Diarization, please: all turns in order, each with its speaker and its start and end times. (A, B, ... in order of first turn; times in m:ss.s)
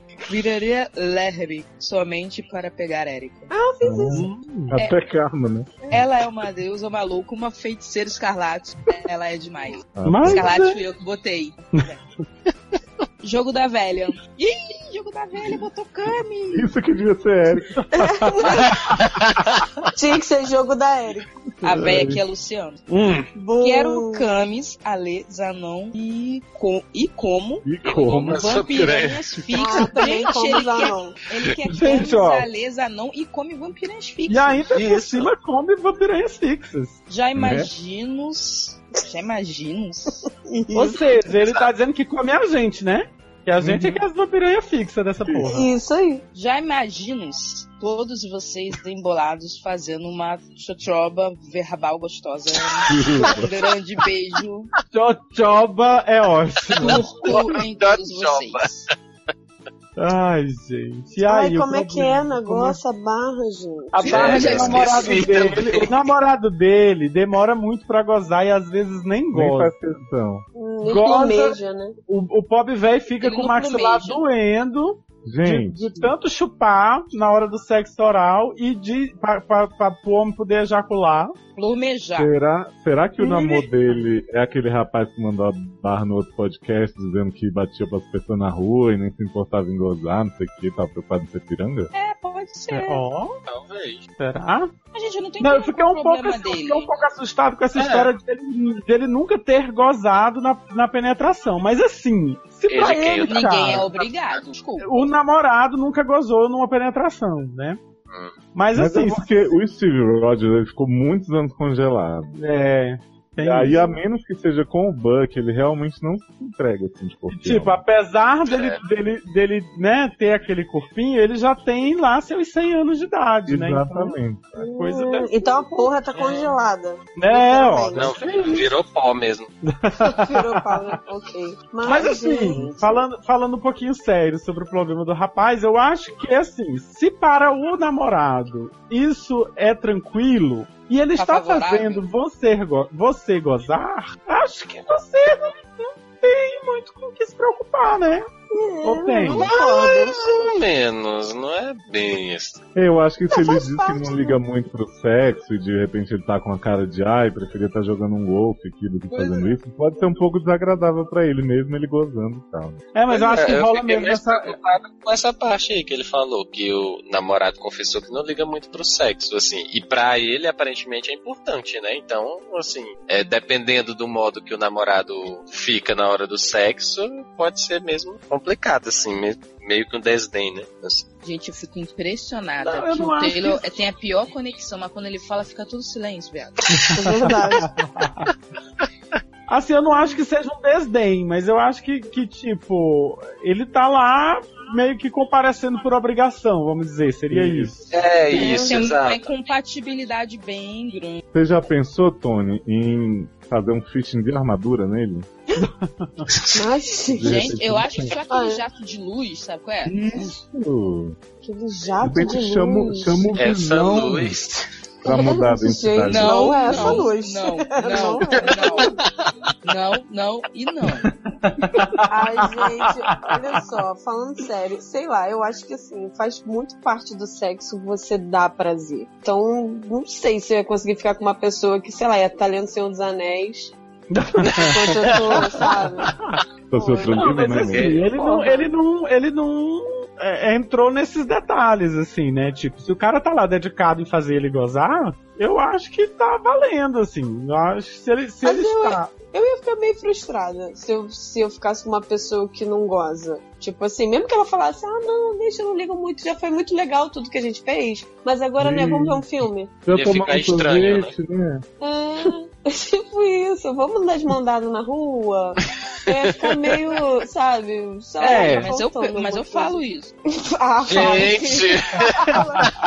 0:00.3-0:03.5 A
0:03.5-0:04.3 B
0:03.8-0:05.8 C
0:04.1-0:04.8 D
0:05.9-0:12.0 A
0:10.0-0:10.5 C
0:10.0-0:10.8 D
0:13.2-0:16.7 A
0:16.5-0:17.8 C
0:17.9-0:18.8 B
0:19.9-0:21.4 B
0:21.6-0:22.8 A
0:21.7-0:22.2 C
0:22.9-0:23.3 D
0:23.4-0:24.3 B
0:23.6-0:34.7 A
0:27.6-0:28.6 C
0:27.8-0:29.9 E
0:29.5-0:31.2 B
0:31.6-0:32.5 D
0:34.3-0:37.0 D
0:34.7-0:35.3 E
0:37.1-0:40.2 A
0:37.4-0:37.7 C
0:40.5-0:41.2 B
0:40.7-0:45.7 D
0:43.6-0:44.0 C
0:45.4-0:46.2 B
0:46.3-0:54.7 A
0:52.9-0:53.5 C
0:54.9-0:57.3 D
0:56.8-0:58.8 A
0:56.8-0:58.7 E
1:00.0-1:02.8 D
1:01.2-1:04.3 B
1:03.9-1:09.7 D
1:04.0-1:05.5 A
1:04.0-1:05.9 E
1:09.3-1:10.5 C
1:10.6-1:12.0 B
1:10.8-1:21.4 D
1:13.2-1:14.2 A
1:15.3-1:16.0 C
1:21.6-1:22.3 A
1:22.2-1:31.9 C
1:23.2-1:23.6 B
1:31.9-1:33.0 A
1:32.7-1:33.4 D
1:33.5-1:34.0 E
1:34.2-1:34.7 D
1:34.9-1:36.9 A
1:35.4-1:43.9 D
1:37.8-1:38.1 E
1:42.7-1:44.4 E
1:43.2-1:45.1 A
1:44.8-1:47.8 D
1:48.5-1:49.3 D
1:48.7-1:52.4 C
1:52.4-1:53.9 D
1:53.4-1:57.8 C
1:57.3-2:06.4 D
1:58.5-1:58.8 E
2:03.5-2:04.6 C
2:04.6-2:08.3 B
2:07.2-2:08.7 D
2:08.0-2:09.5 E
2:09.6-2:10.8 D
2:10.0-2:13.0 B
2:11.8-2:28.3 D
2:21.2-2:22.0 A
2:28.5-2:30.5 B
2:28.8-2:29.7 D
2:29.3-2:32.6 E
2:32.8-2:42.8 C
2:33.3-2:34.4 B
2:42.9-2:44.6 D
2:43.1-3:01.1 E
3:01.2-3:06.7 A
3:02.6-3:03.6 D
3:06.9-3:07.7 B
3:07.6-3:08.3 D
3:09.5-3:17.9 D
3:17.3-3:17.7 C
3:17.9-3:19.2 E
3:18.3-3:21.2 A
3:18.3-3:18.9 B
3:21.3-3:25.3 C
3:25.6-3:26.3 D
3:26.5-3:27.6 B
3:27.1-3:28.1 C
3:27.2-3:30.0 A
3:28.3-3:28.6 B
3:29.8-3:31.2 C
3:31.4-3:33.2 B
3:32.0-3:34.4 C
3:33.4-3:34.7 E
3:35.0-3:39.0 B
3:35.0-3:37.0 C
3:36.1-3:38.9 A
3:39.6-3:41.1 A
3:41.4-3:43.4 D
3:42.1-3:53.7 B
3:54.1-3:56.4 D
3:54.5-3:56.1 B
3:56.7-3:58.0 C
3:56.7-3:58.7 B
3:57.1-4:09.2 D
3:57.7-3:58.1 E
4:08.4-4:19.7 B
4:18.6-4:19.3 C
4:19.9-4:21.6 C
4:19.9-4:21.1 E
4:21.8-4:29.8 B
4:28.2-4:28.7 D
4:28.2-4:30.1 A
4:30.4-4:32.7 B
4:30.8-4:32.2 E
4:32.0-4:32.5 D